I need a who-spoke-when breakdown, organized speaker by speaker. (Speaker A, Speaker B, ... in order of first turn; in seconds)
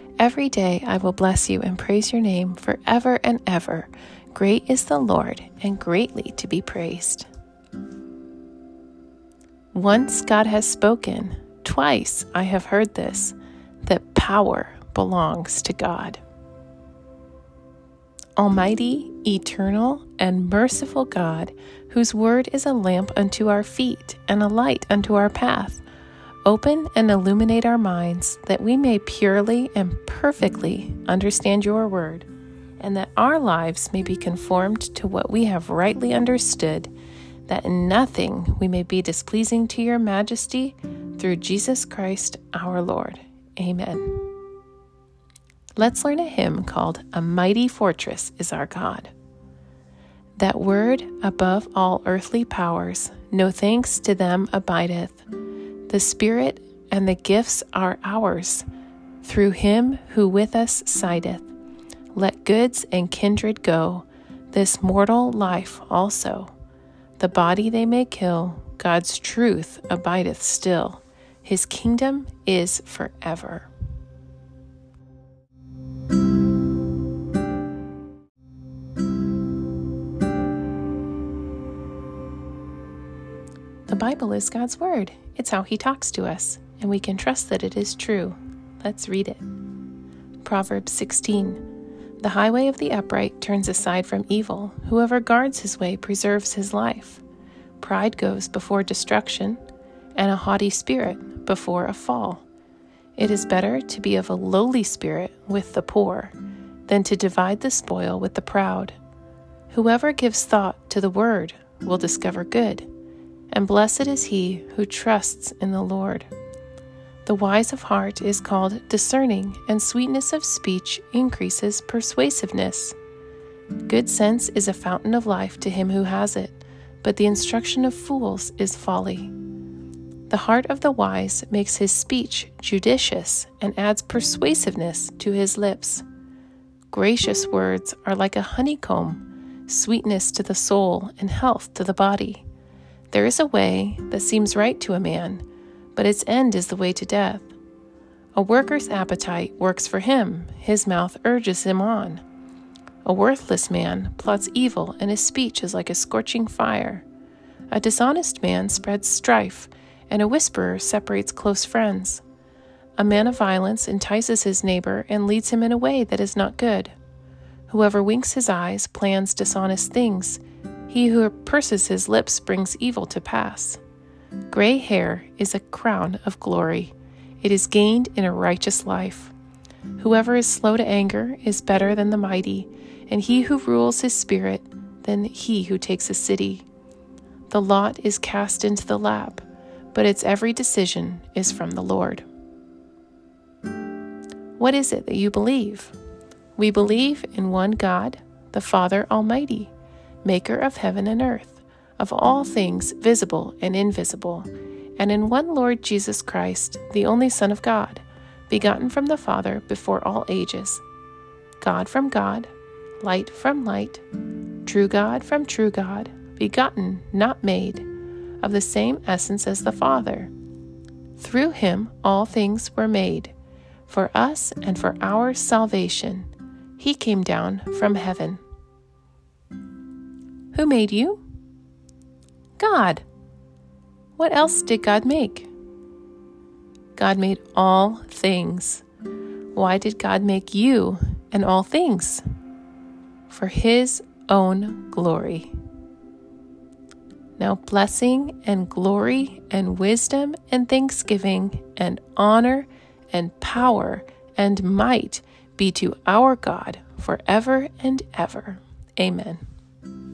Speaker A: 0.2-7.3, 9.7-16.2, 18.4-25.8, 26.4-32.3, 32.8-36.9, 37.5-44.2, 45.8-49.1, 50.4-55.2, 55.9-58.7, 59.2-61.5, 62.1-66.5, 67.2-73.7, 83.9-89.5, 90.4-91.6, 92.2-97.2, 97.8-99.6, 100.2-102.5, 103.2-106.3, 106.9-109.0, 109.7-112.9, 113.5-116.3, 117.2-123.0, 123.8-129.3, 130.3-136.1, 136.9-142.4, 143.1-145.4, 145.9-147.5, 148.3-152.2, 153.1-157.1, 157.7-162.2, 163.0-166.9, 167.7-173.8, 174.5-179.3, 180.0-186.7, 187.5-192.2, 194.6-195.9, 196.6-199.7, 200.2-210.8, 211.6-214.0, 214.7-217.9, 218.4-220.3, 221.2-223.3, 223.9-228.4, 230.5-231.2, 232.6-233.0, 234.2-235.5, 237.0-238.8, 239.6-242.2, 243.3-245.5, 247.4-259.4